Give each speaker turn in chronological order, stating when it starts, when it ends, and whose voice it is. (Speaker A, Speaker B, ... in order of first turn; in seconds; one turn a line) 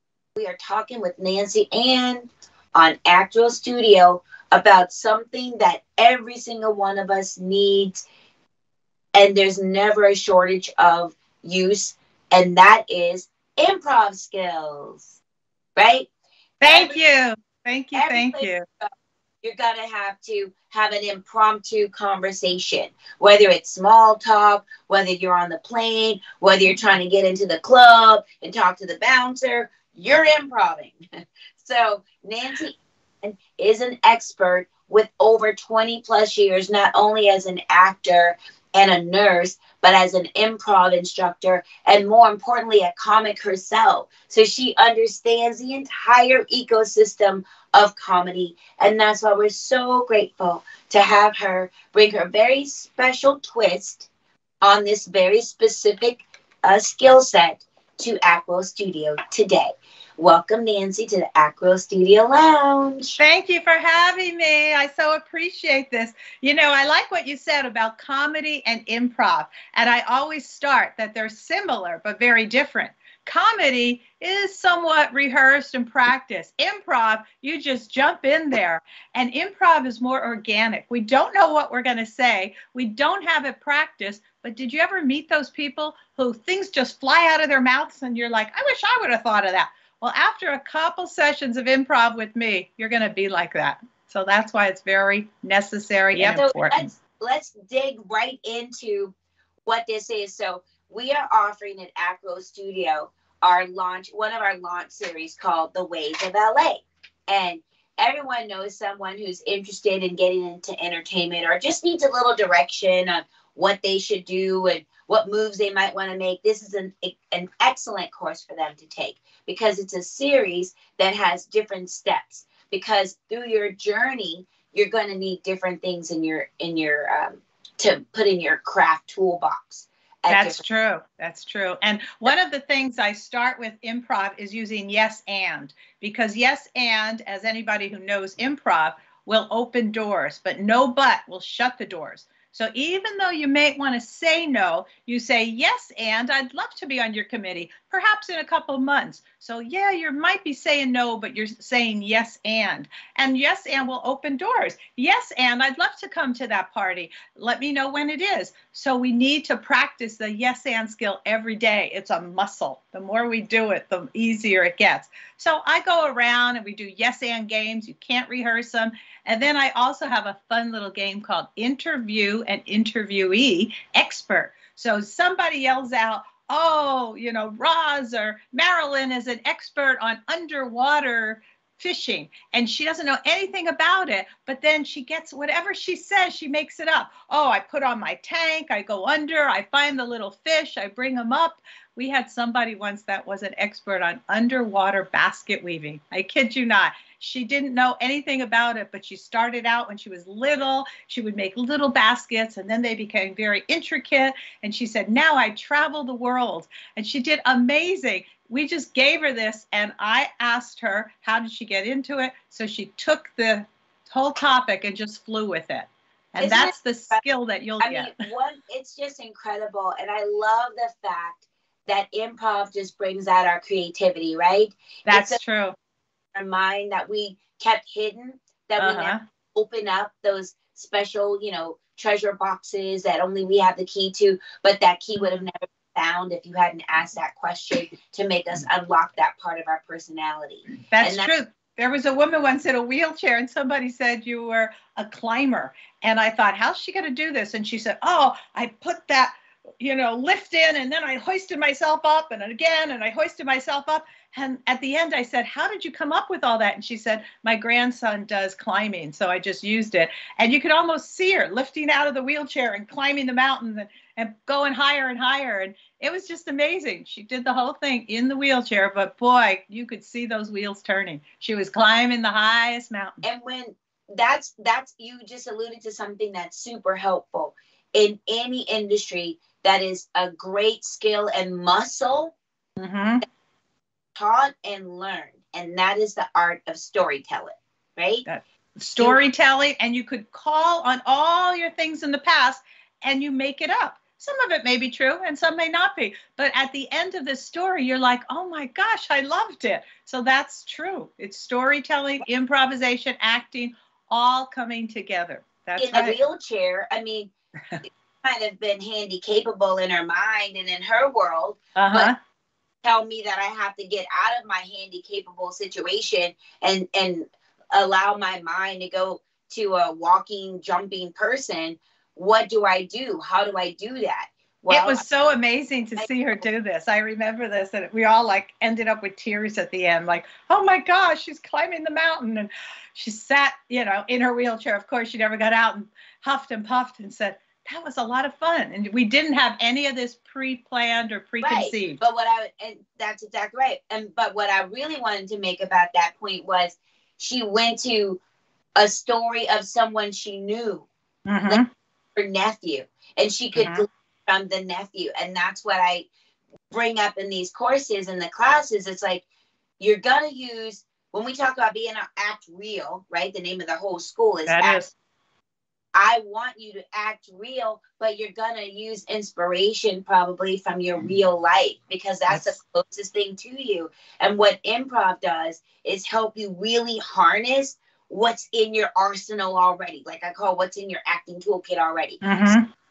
Speaker A: 0.3-8.0
Speaker A: 9.1-15.1
Speaker A: 15.8-16.1
Speaker B: 16.6-18.6
Speaker A: 16.6-17.0
Speaker A: 17.9-18.9
Speaker A: 19.4-30.9
Speaker A: 31.6-54.1
Speaker A: 54.6-63.2
Speaker B: 63.2-96.9
Speaker A: 96.1-99.1
Speaker A: 99.7-130.6
Speaker B: 130.3-218.1
Speaker A: 216.4-217.2
Speaker A: 217.8-225.4
Speaker B: 225.1-225.7
Speaker A: 226.3-241.3
Speaker B: 228.8-229.2
Speaker B: 235.2-235.4
Speaker B: 240.9-273.2
Speaker A: 273.2-282.3
Speaker B: 282.8-283.2
Speaker A: 284.1-288.2
Speaker B: 288.2-306.1
Speaker A: 305.8-307.3
Speaker A: 308.2-312.1
Speaker B: 311.8-312.1
Speaker A: 312.8-325.0
Speaker B: 324.7-342.0
Speaker A: 326.0-326.4
Speaker A: 341.4-348.2
Speaker A: 348.8-350.9
Speaker B: 351.2-351.6
Speaker A: 352.1-356.1
Speaker B: 353.6-353.8
Speaker A: 356.7-359.2
Speaker A: 359.8-364.8
Speaker B: 364.5-364.9
Speaker A: 365.9-382.2
Speaker B: 372.3-372.6
Speaker B: 382.2-382.7